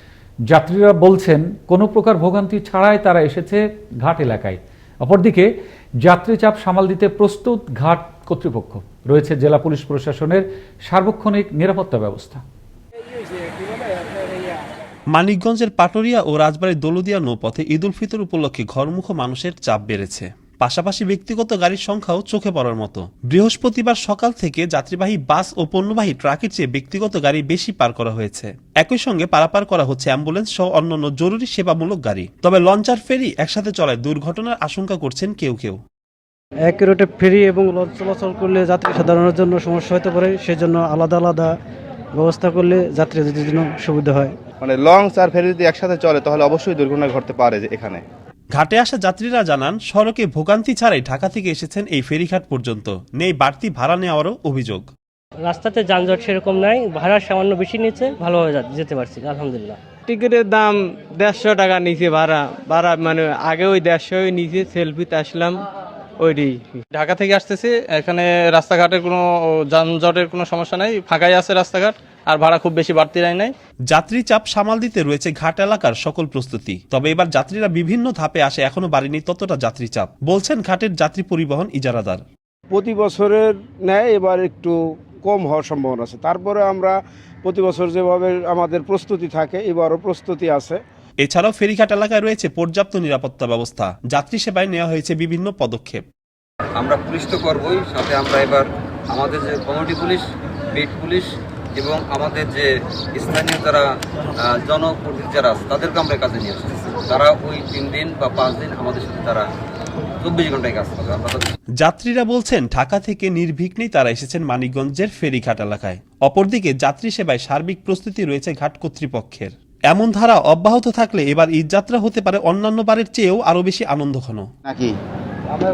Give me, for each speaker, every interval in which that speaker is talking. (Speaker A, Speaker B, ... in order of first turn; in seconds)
Speaker A: 0.5-5.5, 6.0-12.4
Speaker B: 13.5-14.0, 82.7-86.9, 87.4-90.8
Speaker C: 15.1-35.8, 48.5-54.9, 73.9-82.2, 91.2-96.0, 111.8-124.5
Speaker D: 36.6-41.5, 42.1-44.3
Speaker E: 44.6-48.0, 124.7-124.9
Speaker F: 55.4-59.8
Speaker G: 60.1-65.6, 66.2-66.8
Speaker H: 67.0-73.5
Speaker I: 96.8-98.6, 99.1-100.2, 100.7-101.2, 101.8-102.7, 103.2-103.8, 104.4-109.4, 110.2-111.4